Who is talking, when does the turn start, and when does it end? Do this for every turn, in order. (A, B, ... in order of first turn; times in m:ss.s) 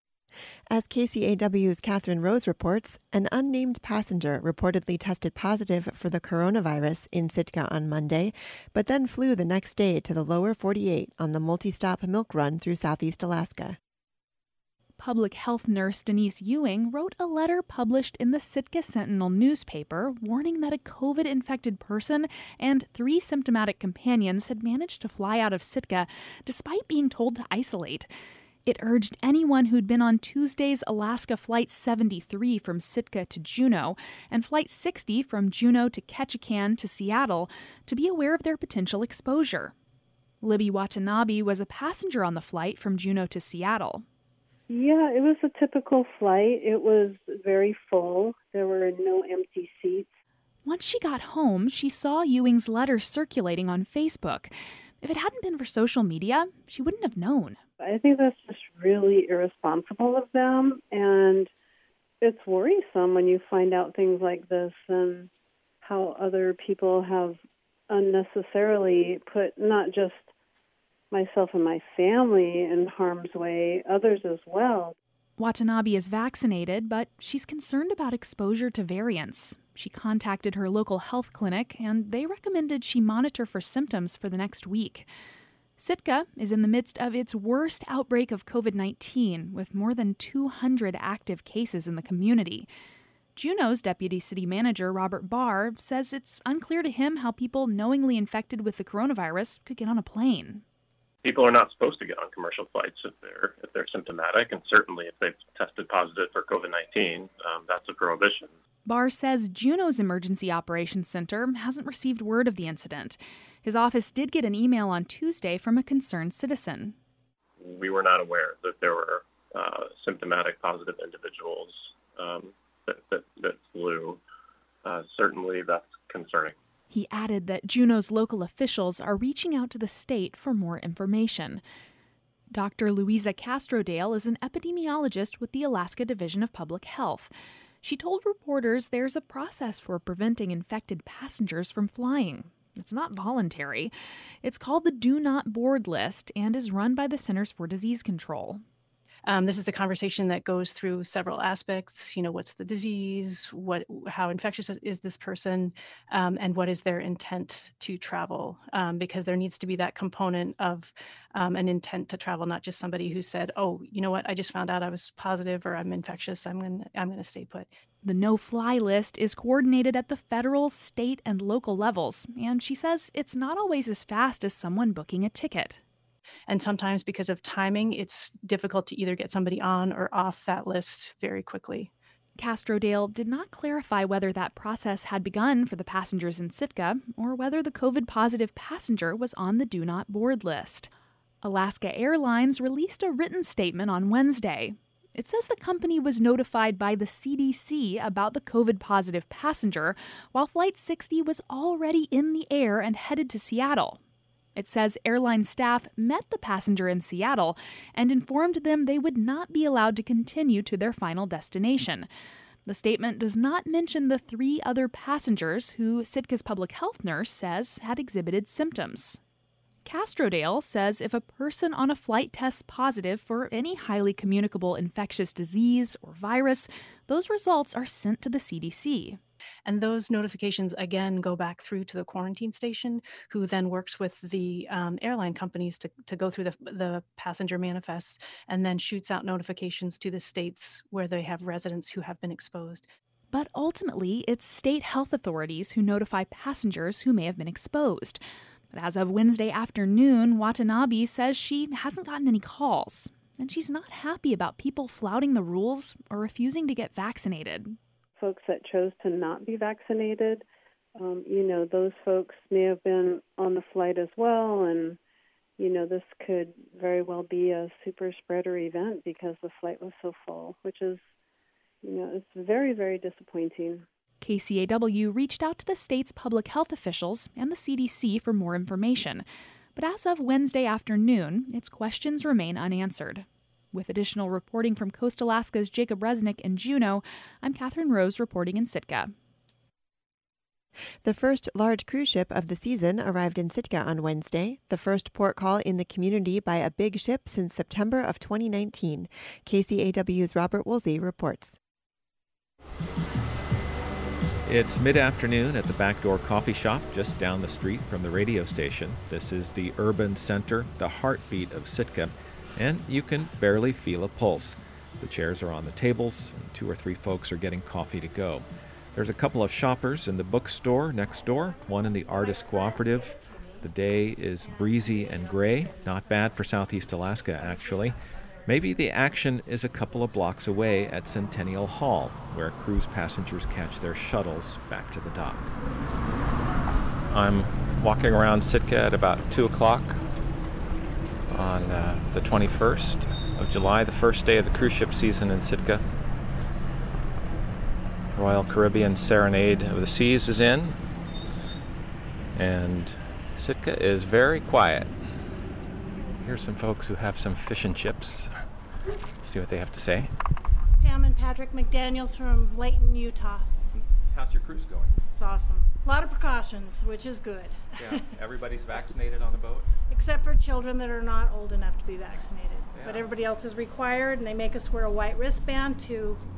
0:00.7-0:13.8 A
0:15.0-0:28.1 B
0:28.6-0:39.7 B
0:40.4-0:44.0 B
0:44.7-0:50.1 C
0:50.6-0:57.6 B
0:57.8-1:01.5 C
1:02.2-1:05.3 C
1:05.8-1:10.2 C
1:11.1-1:14.9 C
1:15.4-1:25.1 B
1:25.8-1:32.7 B
1:33.4-1:40.6 B
1:41.2-1:48.5 D
1:48.8-1:56.9 B
1:57.6-2:04.2 D
2:04.8-2:06.5 D
2:06.9-2:11.6 B
2:12.5-2:28.6 B
2:29.2-2:47.7 E
2:48.0-2:55.8 B
2:56.5-3:01.9 E
3:02.4-3:10.9 B
3:11.4-3:24.0 B
3:24.6-3:32.1 B
3:32.6-3:39.2 B
3:39.8-3:49.2 B
3:49.6-4:02.9 E
4:03.3-4:17.8 B
4:18.2-4:20.4 C
4:21.0-4:25.0 C
4:25.6-4:31.0 C
4:31.8-4:33.8 C
4:34.2-4:39.2 B
4:39.8-4:49.1 B
4:51.0-5:01.6 A
5:04.4-5:35.5 F
5:37.1-5:40.0 F
5:41.3-5:45.8 F
5:48.1-5:50.8 F
5:52.3-5:55.0 F
5:56.1-5:58.3 F
5:59.2-6:00.1 F
6:00.8-6:03.5 G
6:03.7-6:05.0 F
6:05.1-6:08.0 G
6:07.8-6:09.7 F
6:09.9-6:16.2 G
6:12.7-6:13.1 F